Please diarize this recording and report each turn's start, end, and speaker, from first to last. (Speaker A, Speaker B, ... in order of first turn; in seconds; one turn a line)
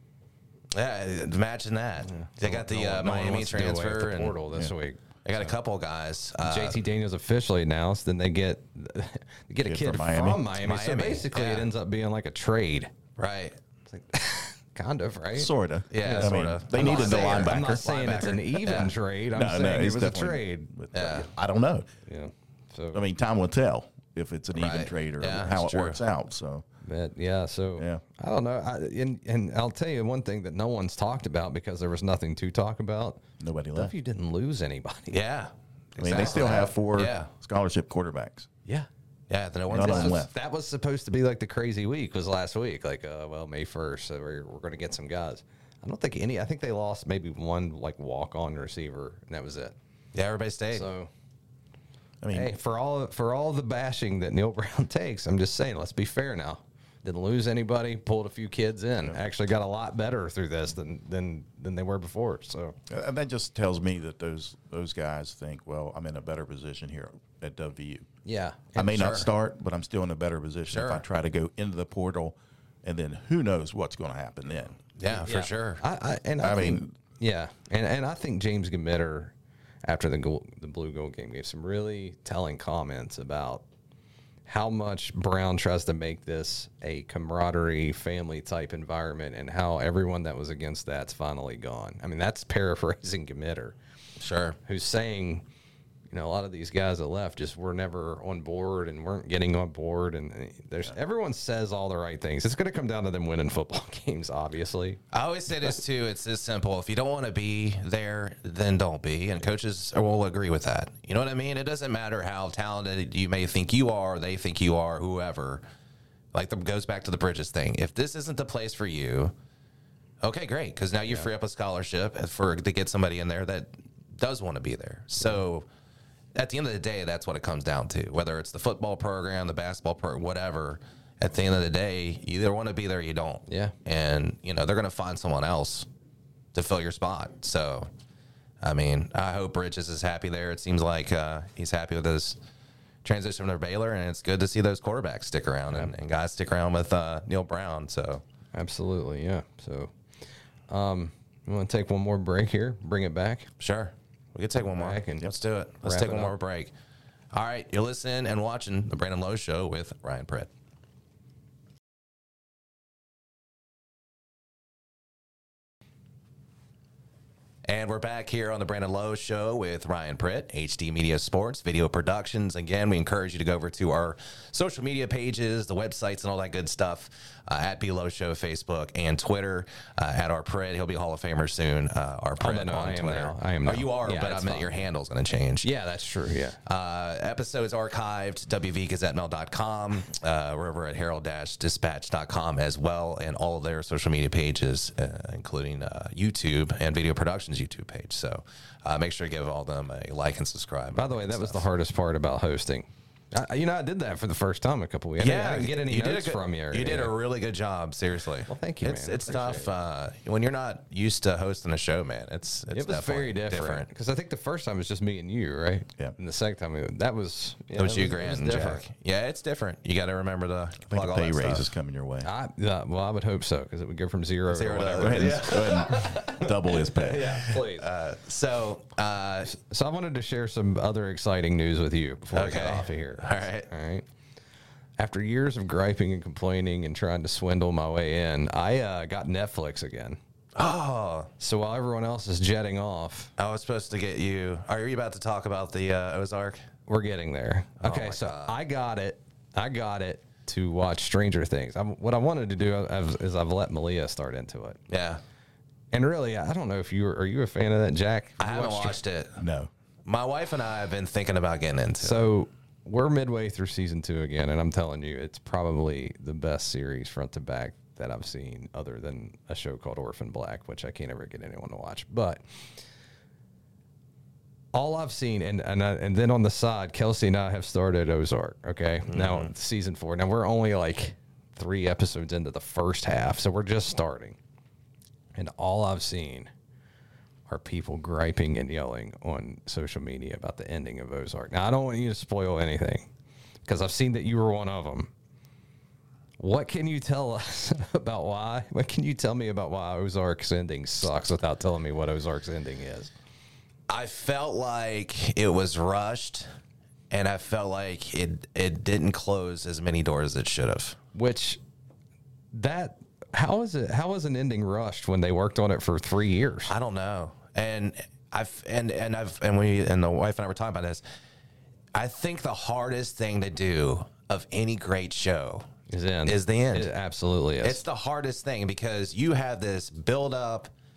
Speaker A: 0.7-4.4
Speaker B: 2.1-5.0
Speaker A: 5.2-6.8
Speaker B: 6.4-12.9
Speaker C: 9.6-10.5
Speaker A: 10.6-11.7
Speaker A: 13.2-13.6
Speaker B: 13.9-20.7
Speaker C: 15.3-17.9
Speaker A: 15.9-18.9
Speaker C: 19.3-21.9
Speaker A: 20.9-21.3
Speaker B: 22.1-23.0
Speaker C: 22.9-26.6
Speaker A: 24.5-26.0
Speaker B: 26.8-33.2
Speaker C: 27.8-28.0
Speaker C: 33.4-33.9
Speaker B: 33.8-35.2
Speaker A: 35.1-37.3
Speaker C: 36.0-38.5
Speaker B: 36.1-36.7
Speaker A: 39.3-40.3
Speaker C: 39.7-40.3
Speaker B: 39.8-49.8
Speaker A: 50.1-50.9
Speaker B: 50.7-51.1
Speaker C: 52.2-52.5
Speaker B: 52.3-62.8
Speaker C: 62.9-68.1
Speaker B: 68.2-69.3
Speaker C: 68.8-74.8
Speaker A: 68.9-69.3
Speaker A: 70.7-71.0
Speaker A: 75.0-75.8
Speaker B: 75.1-83.6
Speaker C: 76.4-76.9
Speaker B: 84.5-93.8
Speaker A: 94.2-94.6
Speaker B: 94.6-95.5
Speaker B: 96.1-105.0
Speaker A: 105.1-115.6
Speaker A: 116.3-119.3
Speaker A: 120.2-125.7
Speaker A: 126.3-135.9
Speaker B: 133.5-133.7
Speaker A: 136.5-137.9
Speaker A: 138.6-142.4
Speaker A: 143.0-148.2
Speaker B: 148.5-149.9
Speaker B: 150.7-153.5
Speaker A: 153.6-156.7
Speaker B: 154.7-156.3
Speaker A: 157.3-160.5
Speaker A: 167.7-185.7
Speaker B: 182.4-184.8
Speaker B: 185.6-186.6
Speaker A: 186.7-201.7
Speaker B: 200.9-207.1
Speaker A: 205.2-213.9
Speaker B: 208.5-209.7
Speaker B: 212.7-218.8
Speaker A: 217.8-221.7
Speaker C: 220.9-222.3
Speaker B: 222.2-227.9
Speaker A: 224.5-226.3
Speaker C: 225.0-227.5
Speaker A: 227.5-229.5
Speaker B: 229.4-234.1
Speaker A: 232.3-233.7
Speaker B: 235.0-240.2
Speaker A: 240.6-241.3
Speaker B: 241.4-243.3
Speaker A: 243.4-246.7
Speaker B: 246.9-254.8
Speaker A: 247.8-248.6
Speaker A: 254.9-255.2
Speaker B: 255.9-259.0
Speaker A: 258.4-259.4
Speaker C: 259.4-259.7
Speaker A: 260.1-262.2
Speaker B: 262.0-272.4
Speaker B: 274.7-284.4
Speaker A: 279.1-279.5
Speaker B: 285.4-286.5
Speaker B: 287.5-293.1
Speaker B: 293.6-295.1
Speaker B: 296.4-303.1
Speaker A: 303.9-306.5
Speaker A: 307.1-311.0
Speaker B: 311.1-311.6
Speaker B: 312.5-316.7
Speaker A: 316.7-321.0
Speaker A: 321.9-325.7
Speaker B: 325.9-327.8
Speaker A: 326.3-326.9
Speaker A: 327.6-330.7